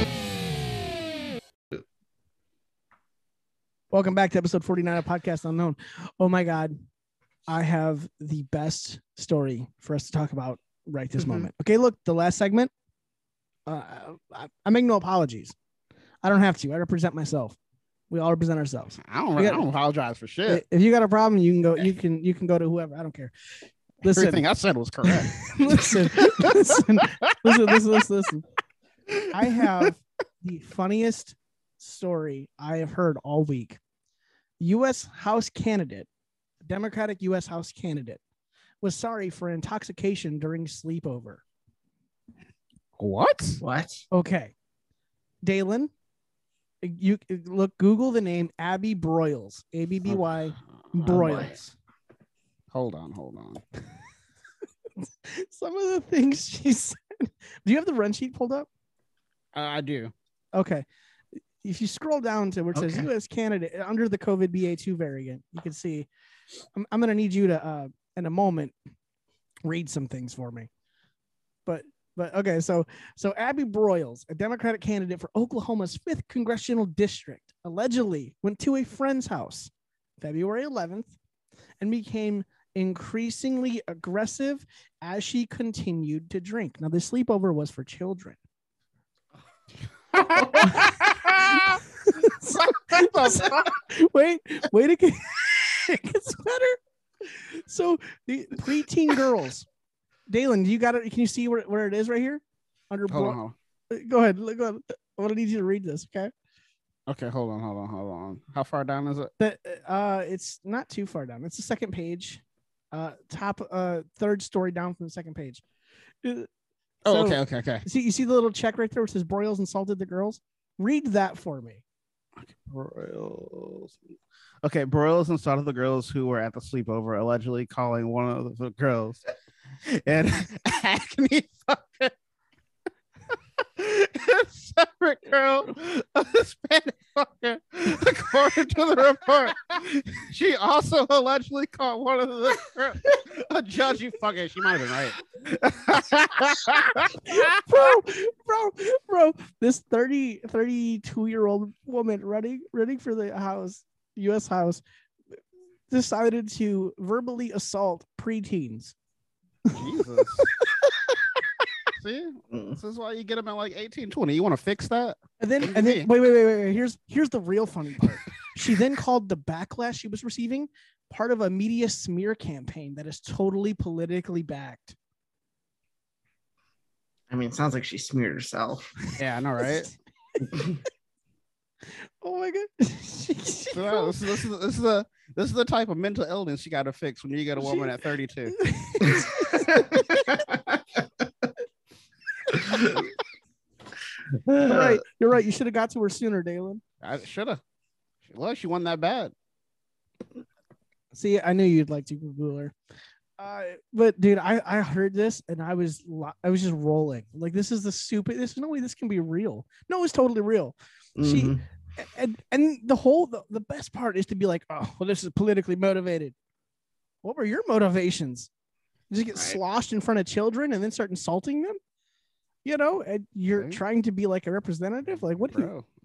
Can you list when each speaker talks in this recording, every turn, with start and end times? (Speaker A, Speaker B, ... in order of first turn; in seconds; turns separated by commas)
Speaker A: 3.9-6.8, Speaker A: 7.5-12.7, Speaker B: 11.2-11.5, Speaker A: 13.7-15.6, Speaker A: 16.2-17.6, Speaker A: 18.1-19.7, Speaker C: 19.0-20.6, Speaker A: 20.5-23.3, Speaker A: 24.0-24.4, Speaker C: 24.1-27.8, Speaker A: 25.0-28.4, Speaker C: 29.1-29.6, Speaker A: 29.3-33.8, Speaker A: 34.6-36.1, Speaker A: 36.6-38.2, Speaker A: 38.8-41.4, Speaker C: 43.0-43.6, Speaker B: 43.6-44.1, Speaker A: 44.1-44.5, Speaker A: 45.4-45.9, Speaker A: 46.8-51.6, Speaker C: 50.8-51.6, Speaker B: 51.0-51.6, Speaker C: 52.7-53.6, Speaker A: 55.3-58.7, Speaker C: 59.5-60.1, Speaker A: 60.5-60.9, Speaker A: 61.6-66.1, Speaker B: 62.7-63.1, Speaker A: 66.7-68.8, Speaker A: 69.7-70.7, Speaker A: 71.7-81.1, Speaker A: 81.8-88.4, Speaker C: 90.1-91.8, Speaker B: 90.3-90.7, Speaker A: 92.0-99.7, Speaker C: 92.6-93.7, Speaker A: 100.3-103.4, Speaker C: 103.1-103.5, Speaker A: 103.9-106.3, Speaker C: 107.1-109.3, Speaker A: 109.4-112.4, Speaker A: 112.9-115.6, Speaker A: 116.2-116.5, Speaker C: 117.0-117.8, Speaker A: 117.1-121.8, Speaker C: 122.4-124.0, Speaker C: 124.6-129.2, Speaker C: 129.8-132.1, Speaker C: 133.6-147.8, Speaker A: 147.3-154.8, Speaker A: 155.9-158.9, Speaker C: 159.7-160.5, Speaker C: 162.0-166.1, Speaker B: 162.5-162.8, Speaker A: 165.4-175.0, Speaker B: 177.3-179.0, Speaker C: 179.2-179.9, Speaker A: 182.2-184.2, Speaker C: 183.7-188.6, Speaker A: 187.6-187.9, Speaker A: 188.5-189.8, Speaker B: 189.1-190.4, Speaker B: 192.6-193.1, Speaker B: 194.4-195.0, Speaker A: 194.6-196.8, Speaker C: 197.0-197.6, Speaker C: 198.2-199.3, Speaker A: 201.1-202.7, Speaker A: 203.4-216.3, Speaker B: 211.2-211.6, Speaker A: 217.2-218.5, Speaker A: 219.1-221.8, Speaker A: 222.7-225.7, Speaker C: 223.5-223.8, Speaker C: 225.2-225.9